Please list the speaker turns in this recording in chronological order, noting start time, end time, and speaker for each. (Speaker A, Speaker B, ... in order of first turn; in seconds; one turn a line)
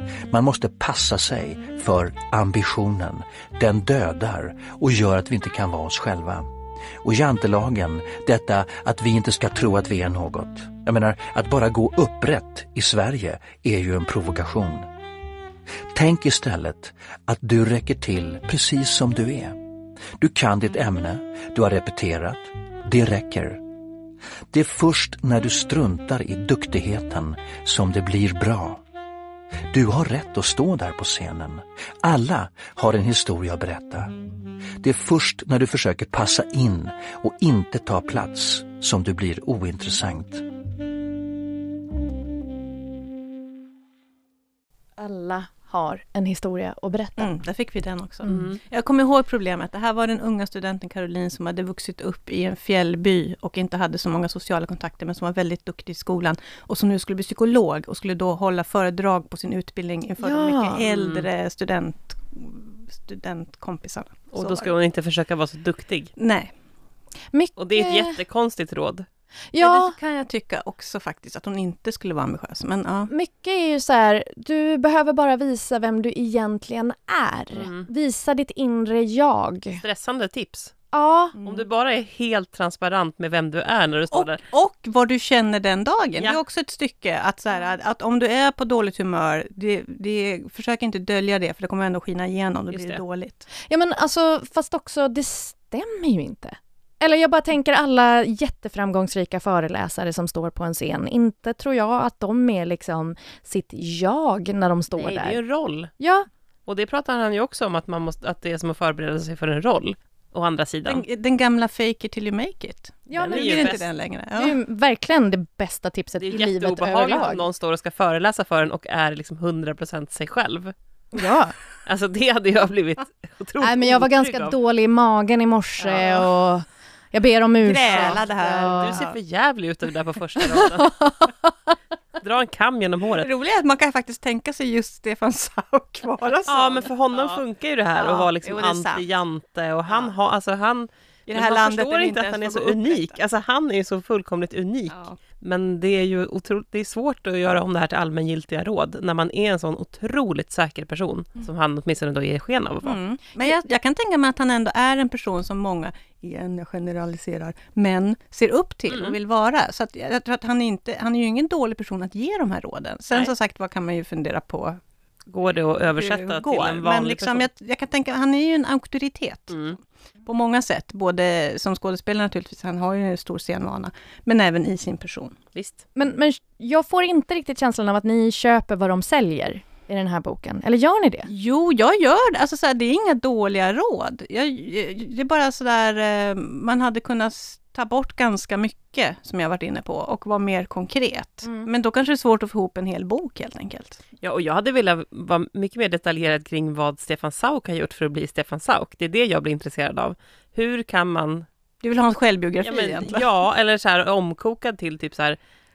Speaker A: 0.3-6.5
Speaker A: 7.0-14.9
Speaker A: 15.9-19.6
Speaker A: 20.2-23.6
Speaker A: 24.5-28.8
Speaker A: 29.7-34.1
Speaker A: 34.8-40.5
Speaker B: 45.0-47.4
Speaker C: 47.2-64.7
Speaker D: 48.3-48.6
Speaker B: 60.2-60.8
Speaker D: 60.9-61.3
Speaker D: 64.3-66.1
Speaker C: 66.2-66.5
Speaker B: 67.3-68.2
Speaker D: 67.6-69.1
Speaker B: 69.5-70.0
Speaker C: 69.6-73.1
Speaker B: 73.1-79.8
Speaker D: 77.5-77.9
Speaker D: 79.8-80.8
Speaker B: 80.9-81.3
Speaker C: 81.3-81.7
Speaker D: 81.5-84.4
Speaker C: 84.1-93.5
Speaker D: 92.7-93.0
Speaker B: 93.7-105.4
Speaker D: 105.0-105.9
Speaker B: 106.0-106.3
Speaker D: 106.7-111.0
Speaker C: 110.9-114.6
Speaker B: 113.1-113.8
Speaker D: 113.3-113.8
Speaker B: 114.4-117.4
Speaker D: 116.2-120.7
Speaker B: 121.1-121.5
Speaker D: 121.9-124.5
Speaker B: 123.6-129.0
Speaker C: 127.6-129.2
Speaker D: 127.9-128.2
Speaker D: 128.8-131.0
Speaker B: 130.7-131.3
Speaker D: 132.2-133.3
Speaker C: 133.2-137.4
Speaker D: 136.5-153.0
Speaker C: 138.0-139.1
Speaker C: 141.3-143.2
Speaker C: 144.9-145.2
Speaker C: 152.8-164.8
Speaker D: 158.9-159.2
Speaker D: 165.3-167.5
Speaker C: 166.0-175.4
Speaker D: 169.5-169.8
Speaker D: 175.6-175.8
Speaker B: 176.0-181.3
Speaker C: 181.3-194.0
Speaker D: 194.2-201.5
Speaker C: 201.8-203.3
Speaker D: 202.6-205.4